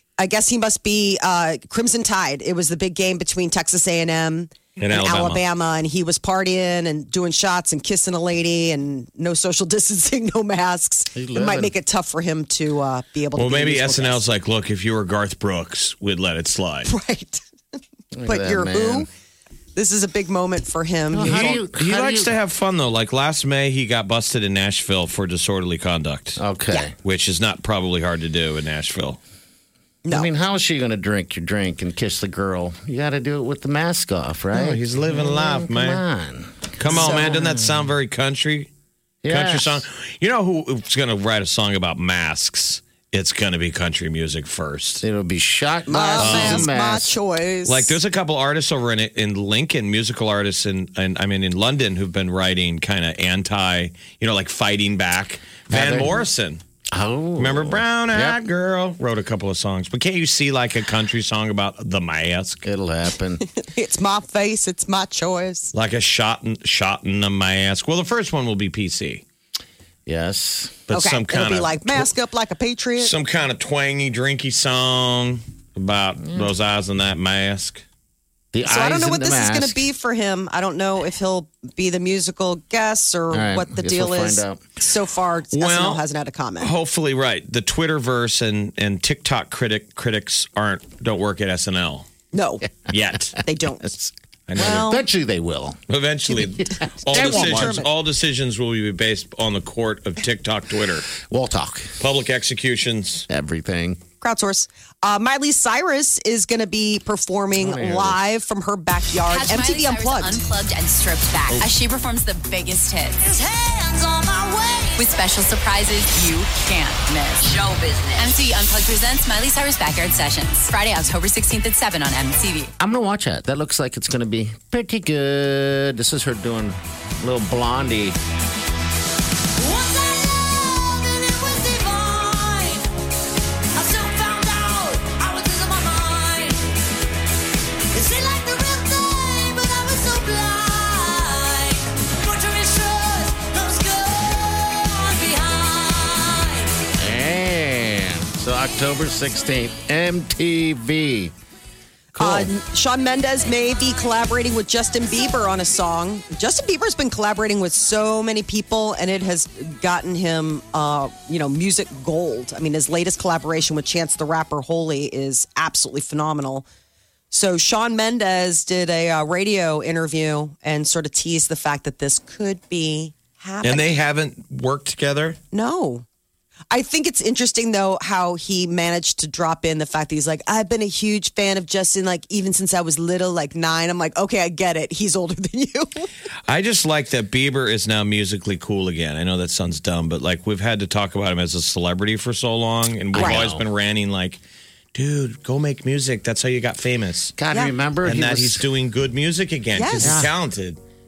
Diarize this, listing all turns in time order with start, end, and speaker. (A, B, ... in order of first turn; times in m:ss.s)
0:00.2-0:14.2 A
0:04.8-0:05.4 B
0:11.1-0:11.7 C
0:13.4-0:16.9 B
0:16.9-0:17.4 A
0:18.1-0:19.1 C
0:18.3-0:19.1 A
0:19.8-0:21.5 A
0:21.1-0:22.4 C
0:21.2-0:26.4 B
0:26.4-0:26.9 C
0:27.0-0:29.2 B
0:30.1-0:37.9 C
0:34.5-0:36.0 B
0:36.8-0:38.7 B
0:36.9-0:37.3 A
0:39.2-0:39.8 C
0:39.3-0:45.0 B
0:45.0-0:47.1 C
0:45.9-0:48.0 A
0:46.2-0:46.7 B
0:47.7-0:56.6 B
0:55.7-0:56.3 C
0:56.9-0:58.4 C
0:57.4-1:02.6 B
1:02.6-1:03.4 C
1:03.4-1:05.7 A
1:05.7-1:09.2 B
1:10.1-1:10.8 C
1:10.9-1:12.1 B
1:10.9-1:13.1 A
1:13.0-1:17.8 B
1:16.2-1:16.5 C
1:18.5-1:19.8 C
1:18.6-1:26.7 A
1:23.3-1:24.6 C
1:25.5-1:26.0 B
1:26.6-1:32.1 B
1:32.3-1:32.7 A
1:32.9-1:33.4 B
1:33.4-1:33.9 A
1:33.8-1:37.8 C
1:34.5-1:35.0 B
1:34.6-1:35.0 A
1:35.9-1:41.1 B
1:37.1-1:37.9 A
1:41.1-1:42.0 C
1:42.0-1:43.3 B
1:43.3-1:44.0 C
1:44.2-1:50.4 A
1:47.5-1:48.2 C
1:49.3-2:02.7 D
2:02.8-2:08.2 C
2:09.6-2:12.7 D
2:18.6-2:20.0 D
2:21.1-2:21.7 D
2:27.0-2:31.3 C
2:32.2-2:32.5 C
2:32.2-2:46.7 A
2:47.3-2:54.0 A
2:53.6-2:55.4 B
2:55.5-2:56.0 A
2:56.7-3:06.1 A
3:06.5-3:14.4 B
3:13.1-3:13.6 C
3:13.1-3:13.4 A
3:14.9-3:17.4 B
3:17.4-3:18.7 C
3:18.0-3:20.8 B
3:19.8-3:20.2 A
3:20.0-3:20.3 C